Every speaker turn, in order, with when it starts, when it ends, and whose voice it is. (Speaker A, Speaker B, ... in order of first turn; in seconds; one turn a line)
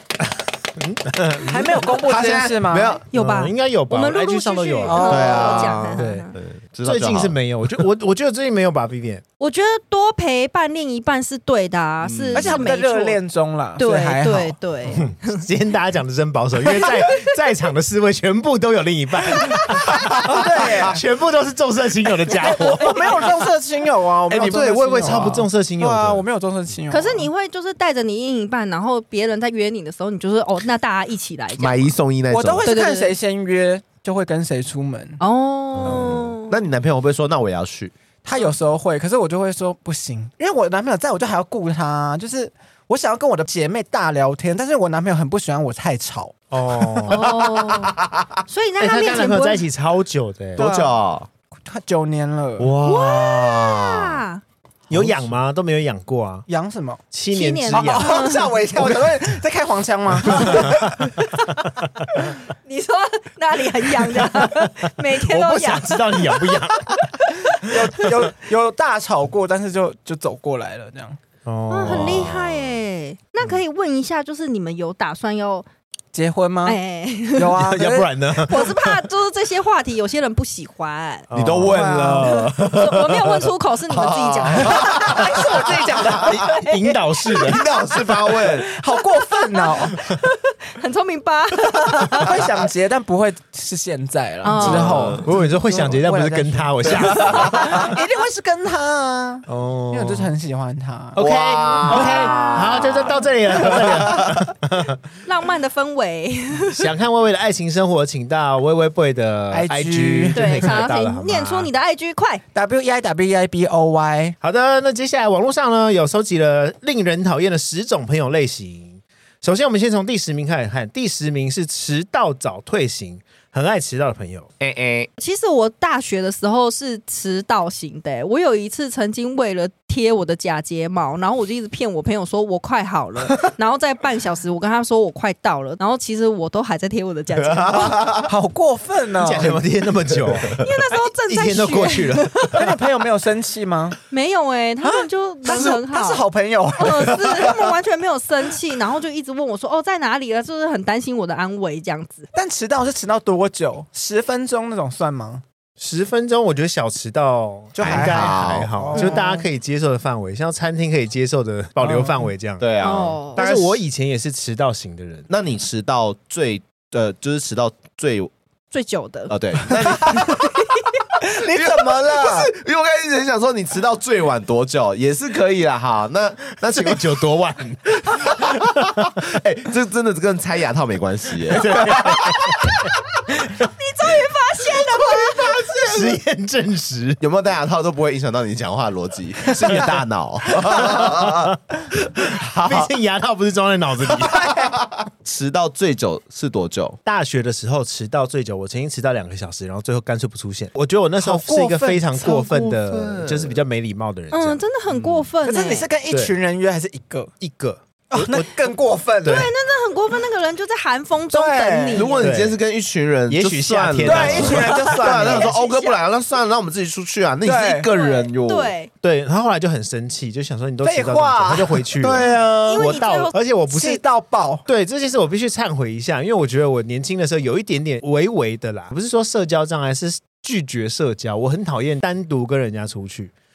Speaker A: 0.8-1.9
Speaker B: 1.4-3.0
Speaker C: 2.0-3.0
Speaker D: 3.1-6.3
Speaker A: 3.1-6.3
Speaker B: 4.8-5.8
Speaker C: 5.1-7.4
Speaker A: 6.8-9.2
Speaker D: 9.4-13.2
Speaker C: 12.0-12.7
Speaker B: 12.3-14.6
Speaker D: 13.8-15.4
Speaker A: 14.9-23.3
Speaker D: 16.8-17.3
Speaker B: 20.0-21.0
Speaker B: 22.4-27.3
Speaker C: 24.3-25.2
Speaker A: 24.3-26.2
Speaker D: 26.9-31.9
Speaker C: 31.6-32.7
Speaker B: 32.3-35.2
Speaker D: 32.6-33.2
Speaker D: 35.2-36.6
Speaker C: 35.8-37.9
Speaker B: 38.2-46.4
Speaker A: 46.5-47.2
Speaker D: 47.1-49.6
Speaker C: 47.1-48.4
Speaker A: 48.8-50.7
Speaker C: 50.6-51.3
Speaker B: 50.6-51.0
Speaker B: 51.6-52.7
Speaker C: 52.6-54.2
Speaker D: 52.8-54.4
Speaker A: 54.9-56.5
Speaker C: 54.9-55.3
Speaker B: 56.5-57.0
Speaker A: 57.1-58.2
Speaker D: 57.3-58.5
Speaker B: 57.7-61.1
Speaker A: 58.8-59.0
Speaker A: 60.3-61.1
Speaker A: 61.6-62.1
Speaker D: 62.6-66.6
Speaker A: 64.2-68.2
Speaker B: 67.6-71.2
Speaker A: 71.5-72.4
Speaker D: 71.7-75.7
Speaker C: 71.8-72.8
Speaker B: 76.1-76.8
Speaker D: 76.7-77.6
Speaker B: 77.4-78.1
Speaker A: 77.5-79.0
Speaker D: 78.4-81.3
Speaker A: 81.3-82.5
Speaker C: 81.3-86.6
Speaker B: 81.7-82.4
Speaker D: 82.6-87.5
Speaker B: 84.7-86.5
Speaker A: 86.4-87.6
Speaker C: 87.3-88.7
Speaker B: 88.6-90.0
Speaker D: 89.2-92.5
Speaker B: 92.2-101.2
Speaker D: 94.4-95.2
Speaker C: 94.5-95.3
Speaker A: 95.2-97.8
Speaker C: 97.0-97.9
Speaker A: 99.5-100.3
Speaker A: 101.2-105.0
Speaker C: 101.2-104.5
Speaker D: 101.8-103.2
Speaker D: 105.2-106.9
Speaker A: 106.8-111.7
Speaker B: 109.5-110.7
Speaker D: 110.3-112.4
Speaker B: 112.5-114.4
Speaker A: 114.4-124.5
Speaker C: 124.6-125.1
Speaker D: 125.2-138.0
Speaker C: 137.4-138.3
Speaker B: 138.2-139.6
Speaker A: 139.2-140.6
Speaker C: 140.1-140.7
Speaker D: 140.6-142.7
Speaker A: 141.2-142.6
Speaker B: 142.5-144.0
Speaker D: 144.1-146.2
Speaker B: 144.8-147.8
Speaker D: 146.8-152.3
Speaker B: 152.3-155.4
Speaker A: 155.8-162.7
Speaker C: 157.8-158.7
Speaker B: 157.8-159.5
Speaker D: 159.0-159.3
Speaker B: 161.8-162.3
Speaker C: 162.6-163.8
Speaker D: 162.8-163.4
Speaker A: 163.3-165.3
Speaker C: 165.3-168.3
Speaker D: 168.7-169.3
Speaker C: 169.3-170.6
Speaker D: 170.2-170.8
Speaker B: 171.2-172.5
Speaker C: 171.4-177.2
Speaker A: 176.6-179.1
Speaker C: 178.1-182.6
Speaker A: 181.6-182.6
Speaker D: 183.7-185.9
Speaker C: 185.4-186.1
Speaker A: 185.7-187.2
Speaker C: 187.2-192.9
Speaker A: 190.5-191.6
Speaker A: 192.2-194.7
Speaker C: 194.3-197.0
Speaker A: 197.1-204.6
Speaker B: 201.2-202.2
Speaker C: 202.2-203.6
Speaker D: 204.3-205.9
Speaker C: 204.9-205.3
Speaker B: 205.4-207.3
Speaker A: 206.1-206.3
Speaker A: 207.4-208.5
Speaker B: 208.1-209.4
Speaker A: 209.2-209.5
Speaker D: 209.2-212.3
Speaker B: 211.3-212.1
Speaker C: 211.9-218.8
Speaker A: 212.2-212.6
Speaker A: 213.3-214.7
Speaker B: 214.0-215.5
Speaker D: 214.6-216.0
Speaker B: 217.4-217.9
Speaker D: 217.9-218.9
Speaker A: 219.0-224.0
Speaker B: 220.8-222.3
Speaker C: 222.0-222.5
Speaker D: 222.6-223.3
Speaker B: 223.7-224.6
Speaker A: 224.7-233.3